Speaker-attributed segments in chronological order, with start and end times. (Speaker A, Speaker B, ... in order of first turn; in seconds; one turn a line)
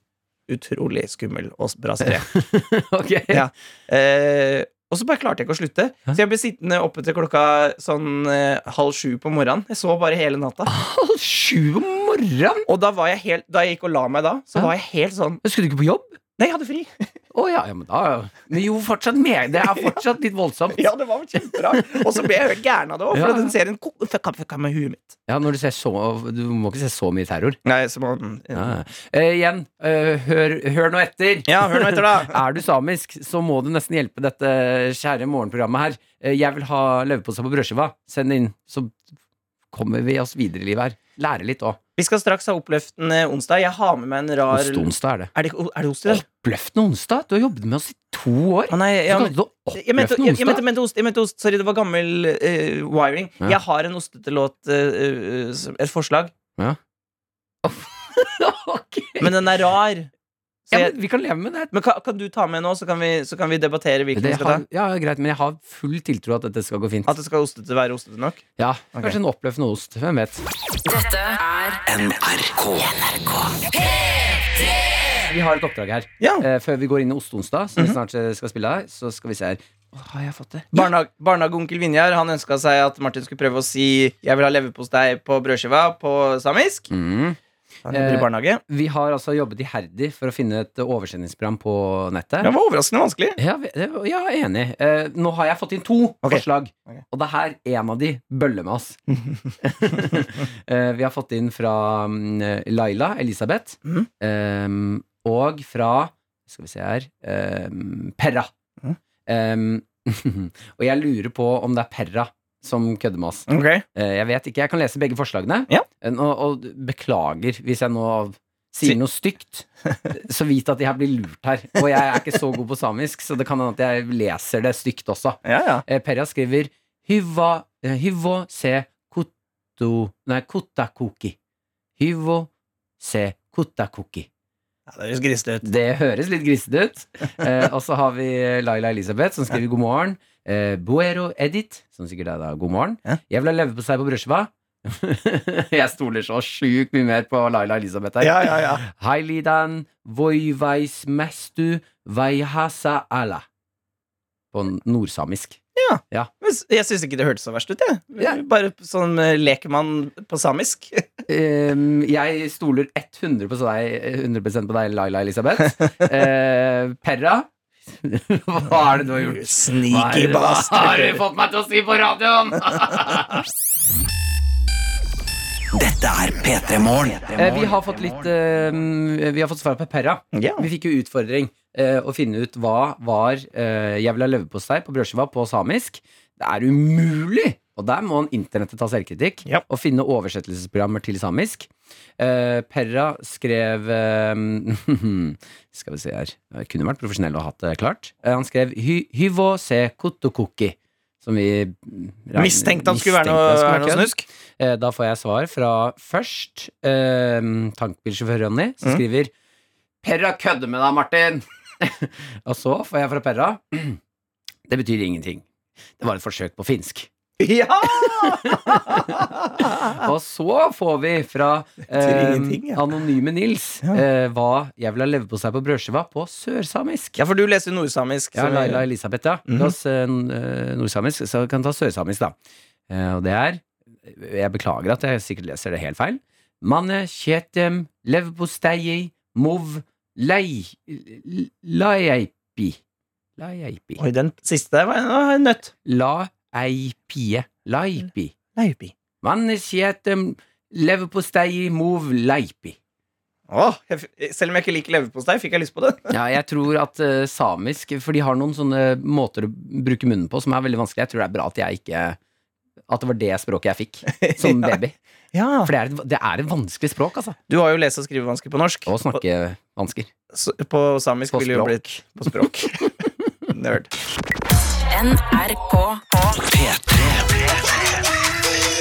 Speaker A: 0.5-2.3
Speaker B: 2.0-3.4
Speaker A: 3.3-10.7
Speaker B: 10.7-12.7
Speaker A: 12.7-15.4
Speaker B: 15.4-16.1
Speaker A: 16.4-17.1
Speaker B: 17.3-20.8
Speaker A: 20.8-25.1
Speaker B: 23.1-23.5
Speaker B: 25.3-27.6
Speaker A: 27.6-28.7
Speaker B: 28.5-39.0
Speaker A: 31.5-32.4
Speaker B: 39.7-41.8
Speaker A: 42.0-46.2
Speaker B: 44.5-45.3
Speaker B: 46.0-50.6
Speaker A: 48.7-56.3
Speaker B: 57.6-59.3
Speaker A: 59.2-60.1
Speaker A: 60.7-60.9
Speaker B: 60.7-61.7
Speaker A: 61.7-64.6
Speaker B: 64.2-67.1
Speaker A: 67.1-68.4
Speaker B: 68.6-70.4
Speaker C: 70.9-71.8
Speaker D: 71.8-73.7
Speaker B: 75.2-80.9
Speaker A: 80.7-86.9
Speaker B: 86.9-87.4
Speaker A: 87.9-88.6
Speaker B: 87.9-92.5
Speaker A: 92.4-93.4
Speaker B: 93.4-99.0
Speaker A: 96.2-97.0
Speaker A: 99.1-99.4
Speaker B: 99.6-108.5
Speaker B: 109.3-131.3
Speaker A: 113.5-113.8
Speaker A: 125.4-125.8
Speaker B: 132.0-132.5
Speaker B: 133.0-134.3
Speaker A: 134.9-135.7
Speaker B: 135.6-153.4
Speaker A: 148.2-148.8
Speaker B: 154.5-155.6
Speaker A: 155.8-161.1
Speaker B: 161.3-167.5
Speaker B: 168.0-173.4
Speaker A: 169.2-171.2
Speaker D: 175.7-178.2
Speaker B: 177.3-209.3
Speaker A: 180.3-180.7
Speaker A: 202.3-204.2
Speaker B: 210.0-214.0
Speaker B: 214.7-215.4
Speaker B: 216.0-217.1
Speaker A: 217.4-220.1
Speaker B: 217.8-227.2
Speaker A: 221.9-222.8
Speaker A: 227.2-228.8
Speaker B: 228.3-232.3
Speaker A: 229.5-229.7
Speaker B: 232.9-242.8
Speaker B: 243.4-244.0
Speaker A: 244.0-245.7
Speaker B: 245.8-248.3
Speaker A: 248.6-248.9
Speaker B: 249.2-252.8
Speaker A: 253.5-256.1
Speaker B: 256.1-262.2
Speaker B: 262.9-265.0
Speaker A: 264.1-264.8
Speaker A: 265.3-265.7
Speaker B: 265.6-267.4
Speaker A: 267.5-268.9
Speaker B: 268.9-270.1
Speaker A: 270.3-272.9
Speaker B: 271.3-272.4
Speaker A: 273.5-273.9
Speaker C: 274.9-276.0
Speaker D: 276.4-277.6